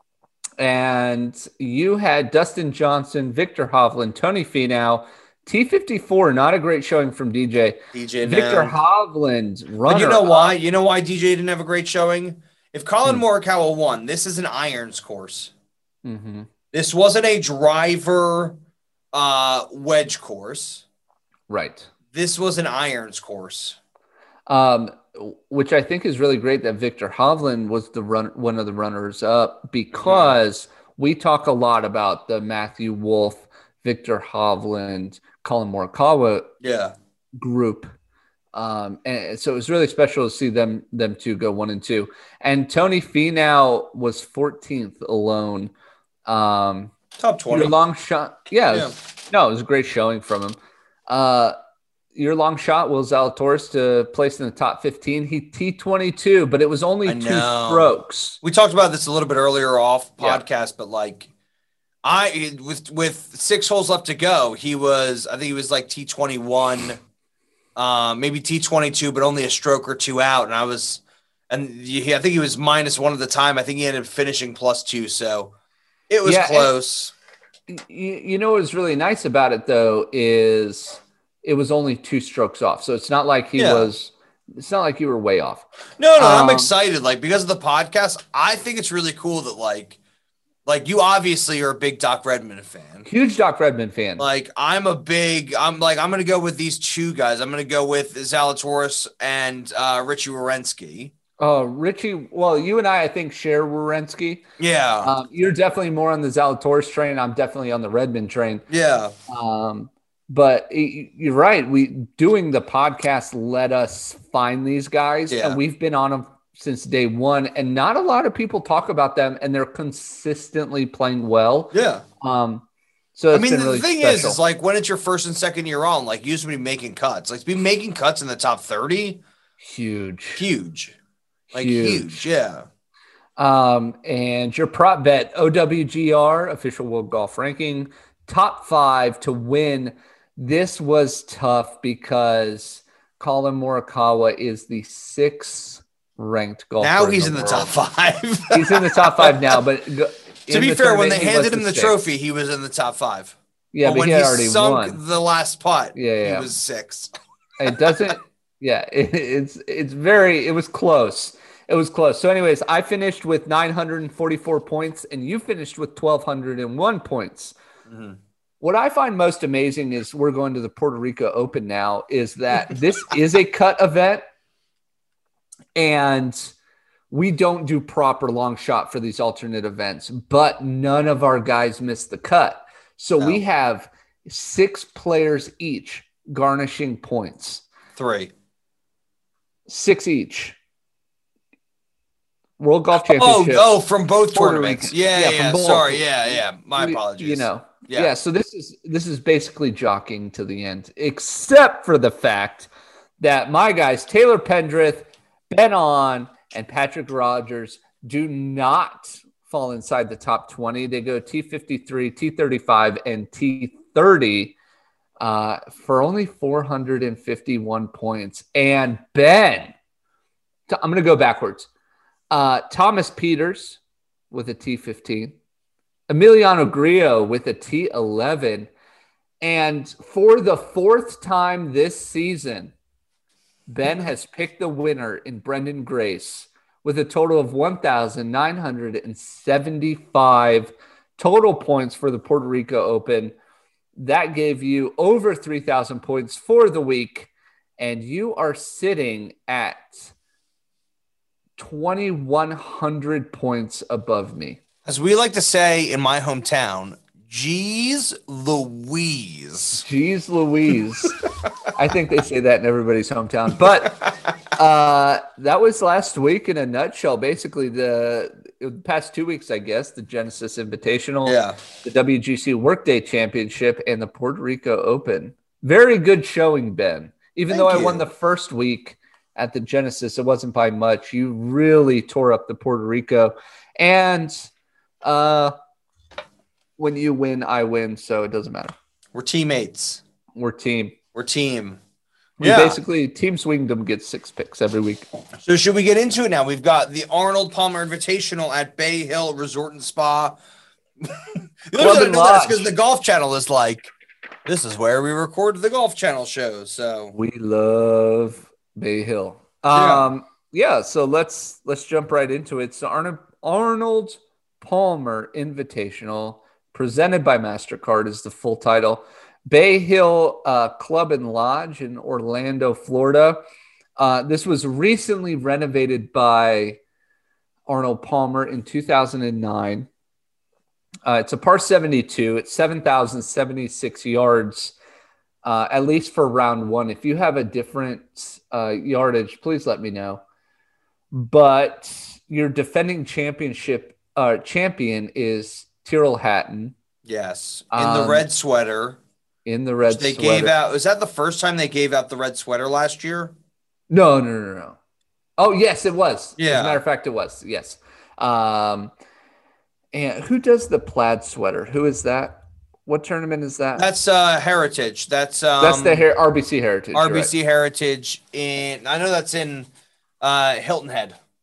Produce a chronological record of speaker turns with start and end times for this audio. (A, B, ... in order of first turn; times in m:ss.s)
0:00.6-0:10.5 A
0:07.9-0:08.7 B
0:09.9-0:15.5 B
0:16.0-0:16.5 A
0:16.7-0:18.6 B
0:19.1-0:20.8 B
0:21.5-0:21.9 A
0:22.1-0:23.8 B
0:24.5-0:36.5 A
0:29.9-0:30.4 B
0:36.6-0:36.9 B
0:37.4-0:37.9 A
0:38.5-0:45.7 A
0:46.2-0:46.9 A
0:47.2-0:47.7 B
0:47.5-0:50.6 A
0:48.7-0:48.9 B
0:51.1-0:51.5 A
0:52.1-0:58.4 A
0:57.0-1:01.3 B
1:02.0-1:07.0 B
1:07.8-1:15.5 B
1:16.1-1:17.1 B
1:16.2-1:16.7 A
1:17.7-1:25.6 A
1:23.6-1:23.9 B
1:26.0-1:30.0 B
1:26.2-1:26.7 A
1:30.6-1:33.1 B
1:33.0-1:34.3 A
1:34.2-1:41.1 B
1:41.4-1:44.4 A
1:44.6-1:45.1 B
1:45.0-1:48.6 A
1:48.7-1:49.1 B
1:49.3-2:04.4 A
1:55.3-1:55.6 B
2:01.7-2:02.0 B
2:03.3-2:09.2 B
2:09.6-2:10.4 A
2:10.4-2:11.0 B
2:11.5-2:12.3 A
2:11.5-2:12.6 B
2:13.4-2:27.7 A
2:26.8-2:29.6 B
2:28.5-2:32.0 A
2:30.5-2:37.1 B
2:33.7-2:35.0 A
2:35.9-2:36.5 A
2:37.6-2:47.5 A
2:47.9-2:48.2 B
2:48.6-2:54.2 A
2:55.8-2:56.5 A
2:57.1-3:07.6 A
3:08.0-3:08.3 B
3:09.7-3:10.6 A
3:12.6-3:13.7 A
3:13.1-3:18.1 B
3:14.3-3:22.7 A
3:23.2-3:34.6 A
3:35.2-3:39.7 A
3:40.7-3:41.7 A
3:42.3-3:43.8 A
3:44.3-3:45.4 A
3:46.1-3:48.7 A
3:49.4-3:52.7 A
3:53.7-4:03.3 A
4:04.0-4:10.1 A
4:11.6-4:14.6 A
4:14.8-4:19.8 B
4:19.8-4:21.2 A
4:21.7-4:44.5 A
4:31.2-4:31.6 B
4:37.5-4:38.0 B
4:45.0-4:45.5 A
4:46.8-4:48.7 A
4:49.1-4:50.0 B
4:50.4-4:51.0 A
4:51.1-4:51.8 B
4:52.4-4:55.0 A
4:52.4-4:52.8 B
4:55.4-5:00.4 B
5:01.0-5:03.9 B
5:01.7-5:02.7 A
5:04.4-5:07.1 B
5:07.1-5:23.4 A
5:09.7-5:10.1 B
5:24.0-5:26.8 A
5:27.7-5:29.9 A
5:31.0-5:34.7 A
5:35.4-5:40.2 A
5:41.1-5:46.7 A
5:47.0-5:49.0 B
5:47.7-5:48.3 A
5:49.4-5:50.5 A
5:49.9-5:53.3 B
5:53.9-5:54.8 A
5:55.4-5:58.9 A
5:56.4-5:56.8 B
5:59.9-6:03.8 A
6:03.8-6:06.0 B
6:05.6-6:07.3 A
6:06.9-6:09.7 B
6:10.2-6:11.2 B